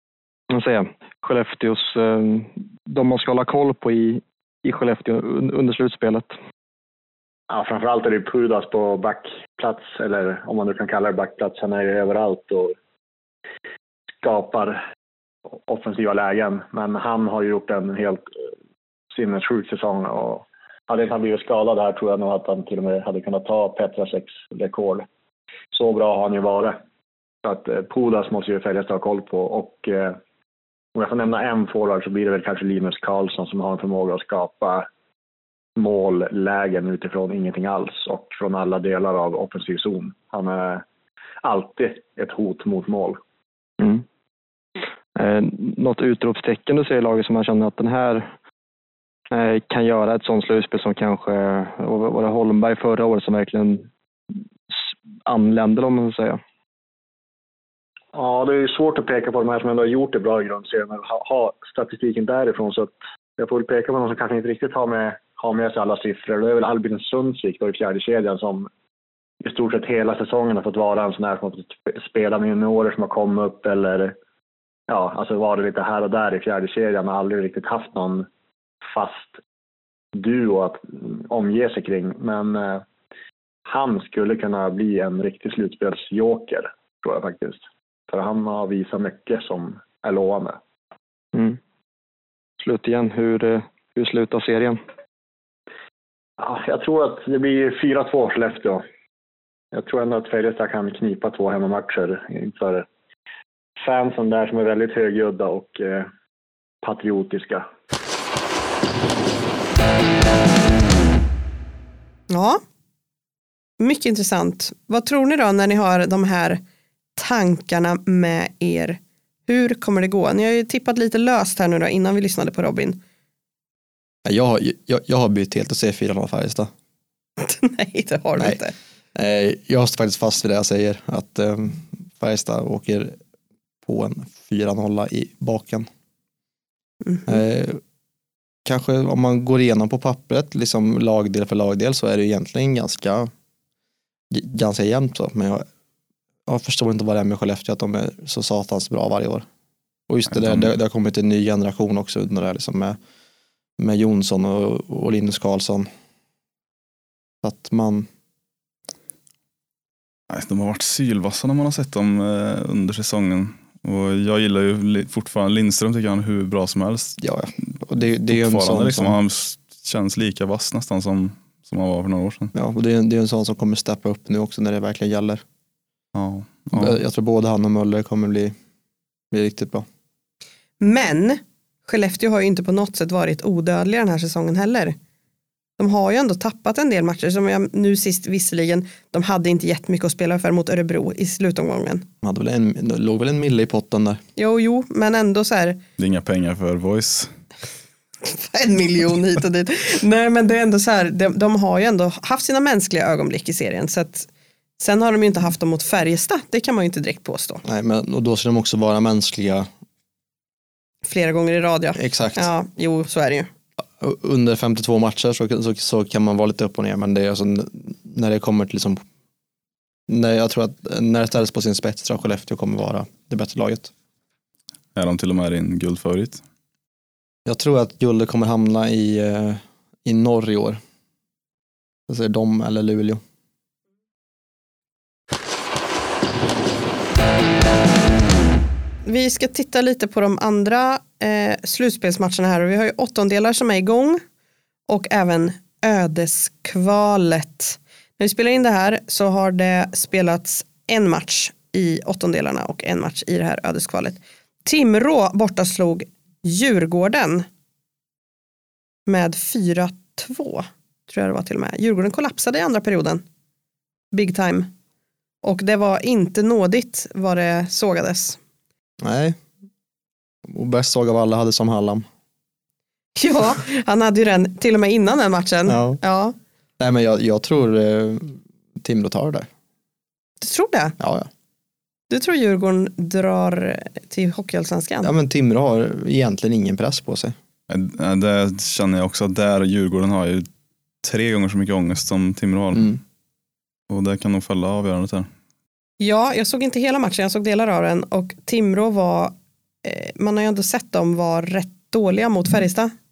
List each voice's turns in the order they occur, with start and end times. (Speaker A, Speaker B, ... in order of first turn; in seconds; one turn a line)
Speaker A: 0.5-6.3
Speaker B: 7.5-12.7
Speaker B: 14.2-14.8
Speaker B: 15.7-18.3
Speaker B: 19.1-25.1
Speaker B: 25.7-26.8
Speaker B: 27.4-30.2
Speaker B: 30.9-34.9
Speaker B: 35.8-40.8
Speaker B: 41.4-43.2
Speaker A: 45.1-48.3
Speaker A: 49.3-53.9
Speaker A: 54.7-56.4
Speaker B: 58.1-68.7
Speaker B: 69.4-74.1
Speaker B: 74.9-78.3
Speaker B: 78.9-79.4
Speaker B: 80.1-82.8
Speaker B: 83.7-90.6
Speaker A: 91.3-91.6
Speaker A: 92.6-94.8
Speaker B: 96.4-98.8
Speaker B: 99.7-102.9
Speaker B: 103.8-106.1
Speaker B: 106.8-107.7
Speaker C: 112.3-112.6
Speaker C: 113.8-116.6
Speaker C: 117.2-123.0
Speaker D: 124.2-126.7
Speaker C: 127.4-128.7
Speaker D: 129.1-133.2
Speaker D: 133.8-135.9
Speaker C: 137.0-137.4
Speaker D: 137.3-137.8
Speaker D: 138.6-143.3
Speaker D: 144.3-145.6
Speaker D: 146.5-149.4
Speaker D: 150.1-153.0
Speaker E: 150.3-150.7
Speaker D: 153.8-155.9
Speaker D: 157.4-158.1
Speaker E: 160.3-167.2
Speaker D: 167.2-169.2
Speaker E: 168.3-172.5
Speaker D: 172.5-175.4
Speaker E: 176.1-177.0
Speaker D: 176.7-178.5
Speaker D: 179.3-179.8
Speaker C: 180.8-184.9
Speaker C: 185.8-192.0
Speaker D: 192.2-194.2
Speaker C: 194.4-195.8
Speaker E: 196.0-197.3
Speaker C: 198.2-207.6
Speaker D: 207.6-209.7
Speaker C: 211.0-213.5
Speaker D: 211.9-212.5
Speaker D: 214.0-219.0
Speaker D: 220.1-223.9
Speaker E: 224.9-226.4
Speaker D: 227.4-230.8
Speaker D: 232.1-233.2
Speaker C: 239.0-244.2
Speaker C: 244.9-257.4
Speaker C: 259.1-263.2
Speaker C: 264.1-264.7
Speaker C: 265.4-268.4
Speaker D: 269.0-269.4
Speaker D: 270.5-272.0
Speaker C: 273.1-276.3
Speaker D: 275.7-276.0
Speaker D: 276.8-279.5
Speaker C: 280.4-280.9
Speaker D: 281.0-281.3
Speaker C: 282.1-285.1
Speaker D: 285.0-287.3
Speaker E: 287.7-290.5
Speaker E: 291.0-293.0
Speaker E: 293.9-295.3
Speaker C: 296.0-302.9